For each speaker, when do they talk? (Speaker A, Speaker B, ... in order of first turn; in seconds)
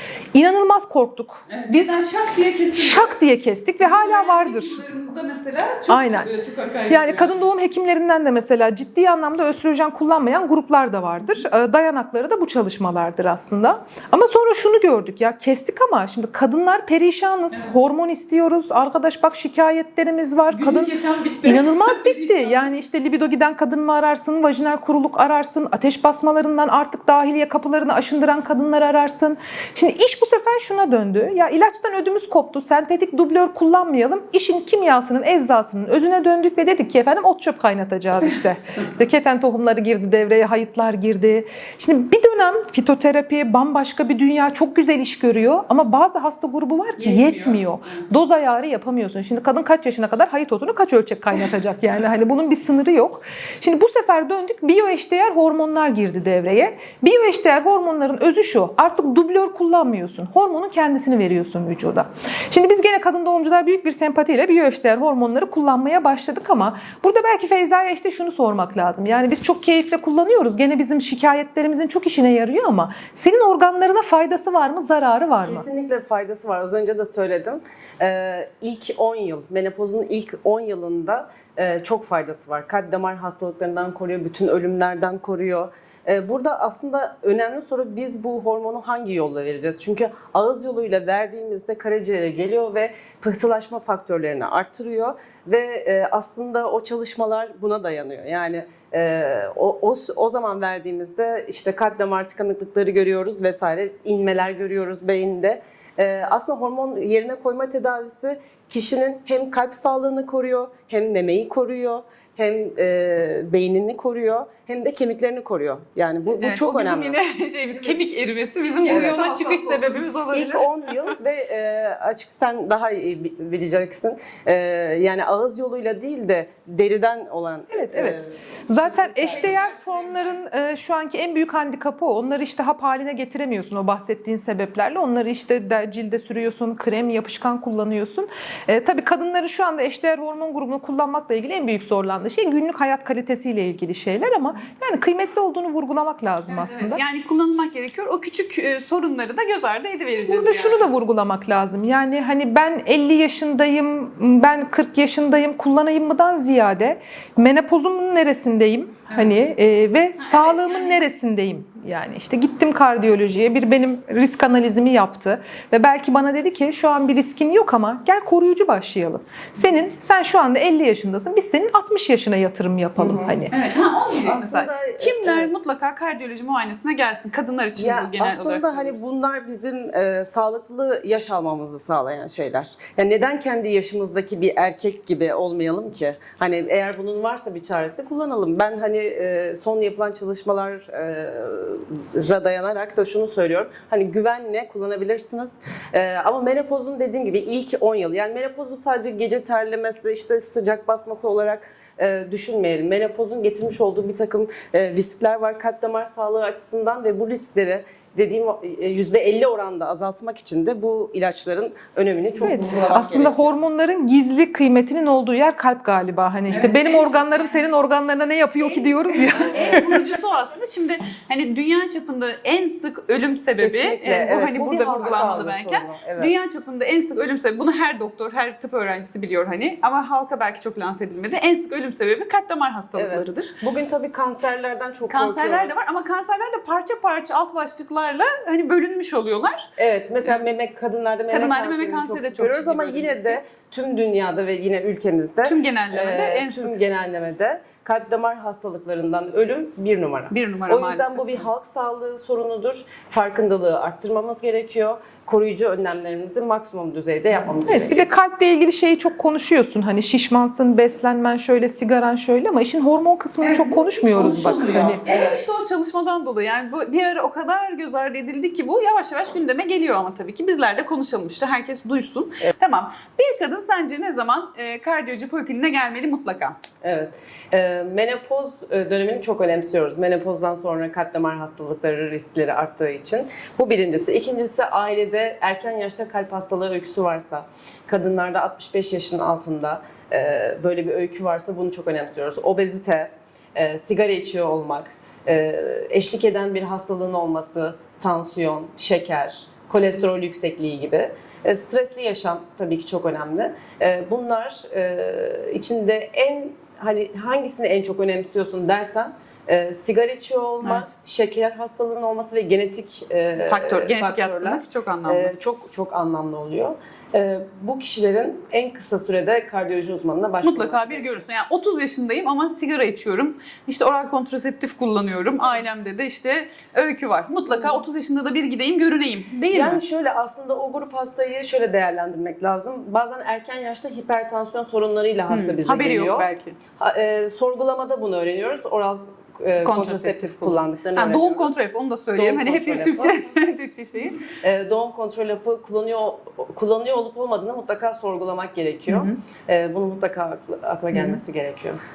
Speaker A: 0.3-1.9, 2.8-4.8, 5.9-6.3, 6.9-75.7, 118.8-120.2, 127.7-147.0, 150.2-173.5, 212.4-220.0, 257.6-265.0
Speaker B: 1.5-3.1, 3.8-7.3, 20.5-22.7, 47.0-48.0, 116.4-121.1, 129.3-130.4, 146.5-150.8, 159.1-159.4, 160.2-161.0, 173.5-178.9, 216.5-217.7, 218.6-233.5, 235.1-239.7, 241.3-243.4, 245.4-246.8, 250.3-251.4, 263.4-276.6, 313.4-315.3, 320.4-329.8, 335.3-336.6, 339.6-344.2, 348.9-349.1, 350.9-351.2
Speaker C: 75.4-117.2, 118.9-119.2, 120.3-128.3, 128.9-129.6, 173.0-173.3, 174.2-175.5, 177.8-213.6, 223.6-226.3, 232.9-235.7, 239.8-258.0, 264.2-265.3, 276.8-321.2, 327.5-327.8, 329.5-336.3, 336.8-341.5, 342.1-343.2, 344.4-351.8